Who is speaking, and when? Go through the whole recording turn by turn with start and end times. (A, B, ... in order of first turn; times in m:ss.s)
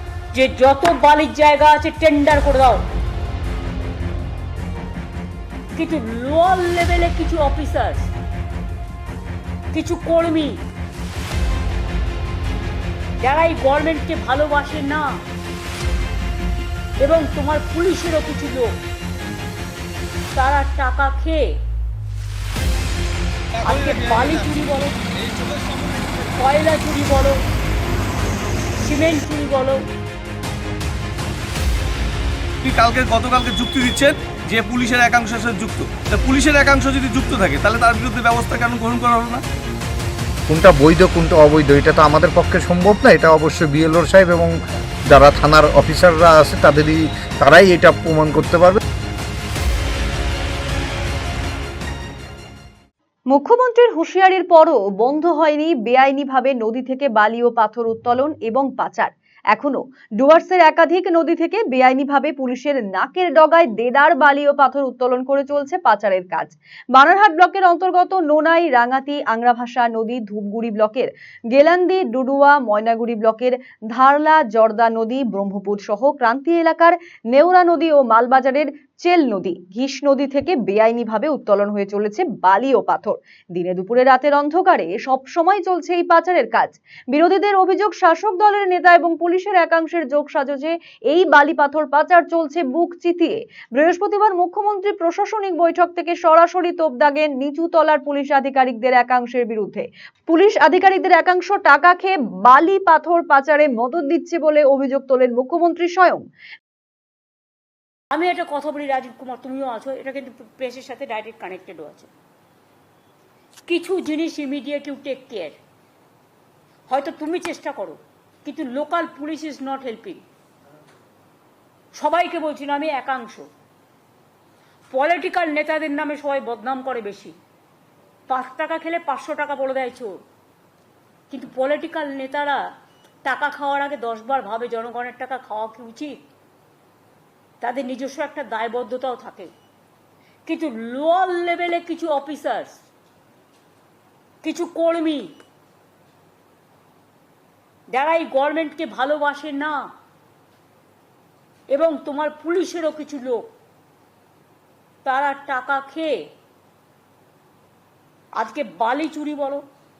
0:00.3-0:02.8 A
0:05.7-0:08.1 A
0:09.7-0:10.6 A
0:13.2-0:15.1 A
0:17.0-0:18.8 A
0:20.3-0:21.5 A
0:23.6-0:26.4 B
0:23.7-0:25.0 A
0:26.4-0:27.4 A
0:28.8-0:29.8 A
0:32.6-0:39.4 B
0:40.5-0:44.5 C
0:45.1-0:48.8 C
0:53.3-1:46.2 D
1:48.1-1:52.1 A
1:53.7-1:55.6 A
1:56.9-2:00.2 A
2:01.9-2:03.5 A
2:04.9-2:07.3 A
2:08.3-2:10.2 A
2:11.3-2:12.6 A
2:13.2-2:16.2 A
2:17.6-2:19.5 A
2:20.5-2:22.8 A
2:24.4-2:25.3 A
2:27.9-2:29.8 A
2:31.7-2:33.5 A
2:35.0-2:36.2 A
2:38.4-2:39.6 A